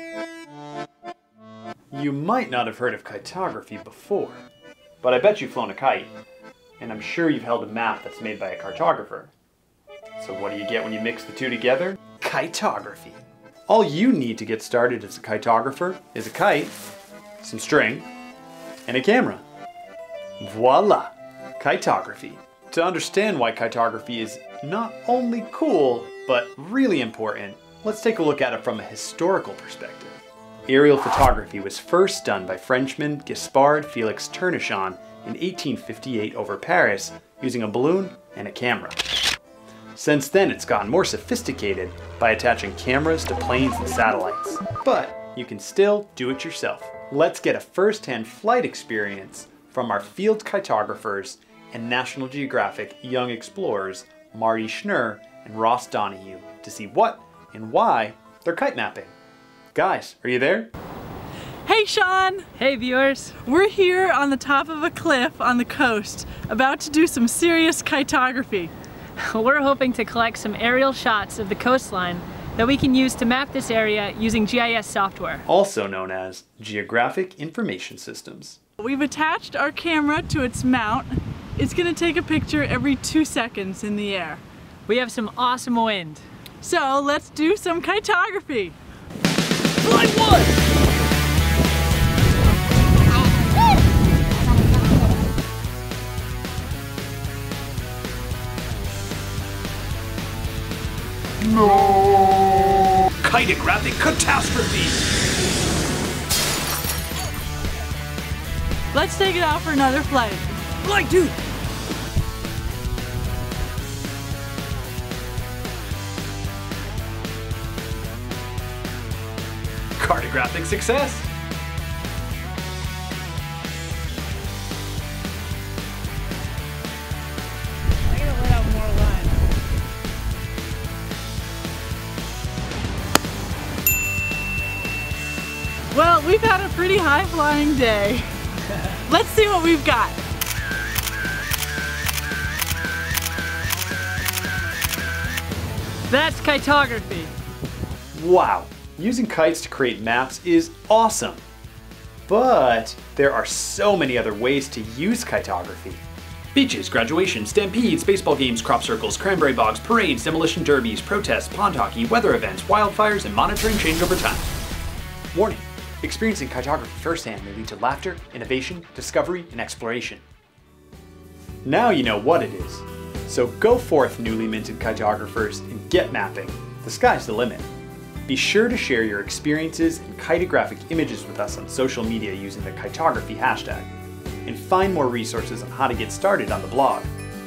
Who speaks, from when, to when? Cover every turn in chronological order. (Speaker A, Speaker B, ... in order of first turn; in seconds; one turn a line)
Speaker A: 1.9-4.4
Speaker A: 5.0-6.1
Speaker A: 6.8-9.3
Speaker A: 10.2-16.7
Speaker A: 17.4-18.1
Speaker A: 18.9-19.4
Speaker A: 20.4-39.0
Speaker A: 39.9-59.1
Speaker A: 59.7-60.7
Speaker B: 61.6-62.5
Speaker C: 62.6-63.3
Speaker B: 63.4-68.7
Speaker C: 69.2-75.4
Speaker A: 75.5-78.6
Speaker B: 78.8-84.4
Speaker C: 84.9-86.2
Speaker B: 86.6-88.8
Speaker C: 89.9-90.5
Speaker A: 101.5-105.0
Speaker B: 108.9-110.5
Speaker A: 110.8-111.3
Speaker A: 120.0-121.3
Speaker B: 128.1-129.3
Speaker B: 135.9-138.3
Speaker B: 139.0-140.2
Speaker C: 146.1-147.3
Speaker A: 148.1-151.4
Speaker A: 152.3-164.5
Speaker A: 165.3-170.2
Speaker A: 171.6-177.7
Speaker A: 178.3-183.9
Speaker A: 184.4-187.1